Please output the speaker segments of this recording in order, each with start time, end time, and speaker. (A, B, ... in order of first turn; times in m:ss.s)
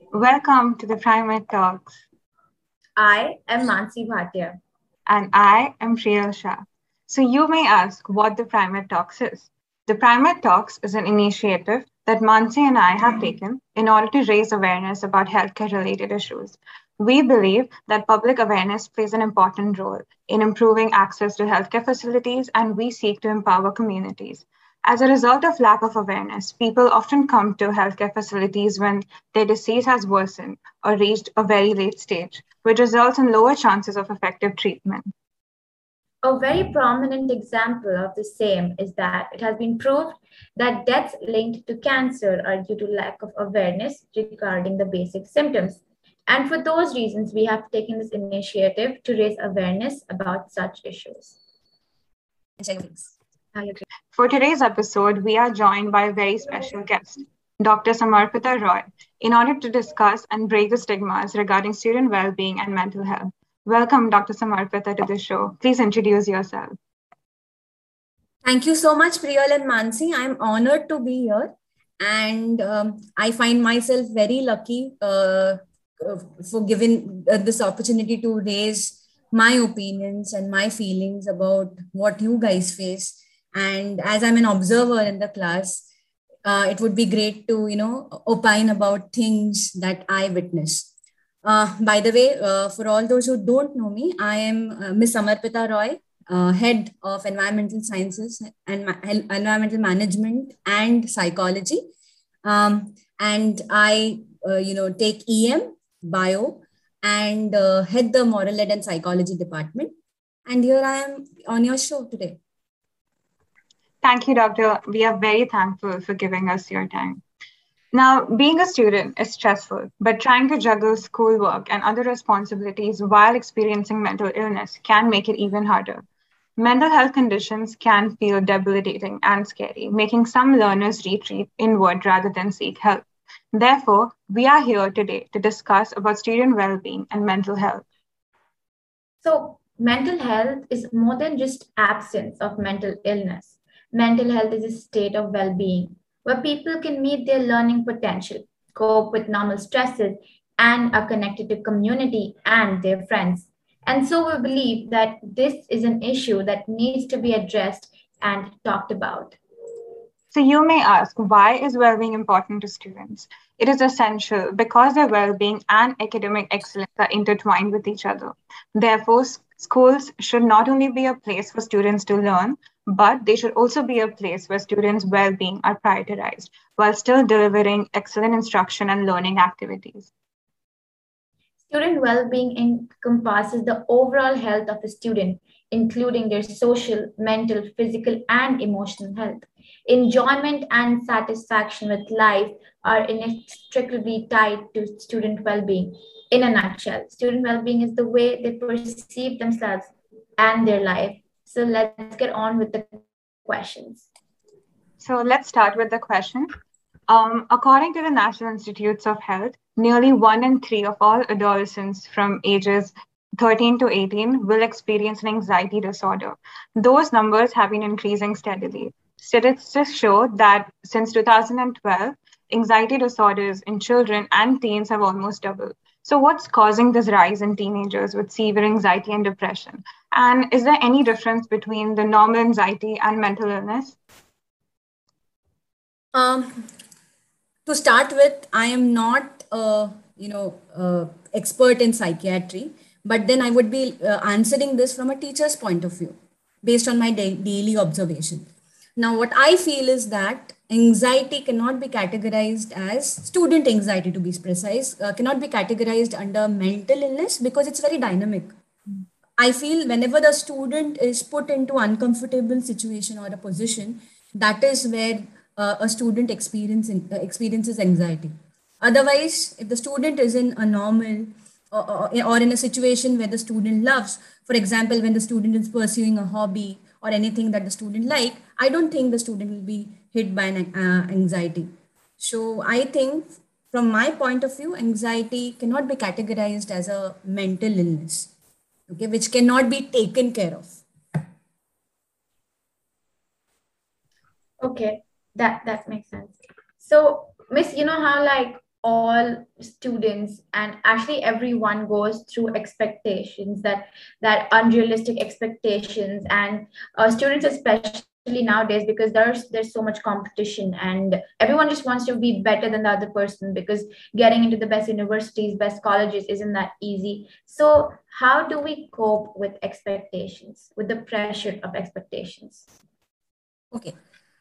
0:00.1-0:02.0 A
0:03.0-0:04.6 B
0:05.1-0:35.1 A
0:36.2-0:51.3 B
0:52.6-0:53.1 C
0:53.5-0:53.8 B
0:54.1-1:06.8 A
1:08.4-1:25.8 C
1:26.4-1:30.9 C
1:31.4-1:41.8 C
1:42.4-1:49.9 C
1:50.5-1:52.4 C
1:54.0-1:57.2 A
1:57.9-2:06.0 A
2:06.6-2:17.8 A
2:19.2-2:39.4 B
2:40.3-3:00.1 A
3:01.7-3:24.1 B
3:25.0-3:26.5 A
3:27.1-3:54.0 A
3:56.1-3:56.7 C
3:57.6-4:18.5 C
4:19.4-4:48.3 C
4:48.9-4:50.8 C
4:54.6-5:22.7 B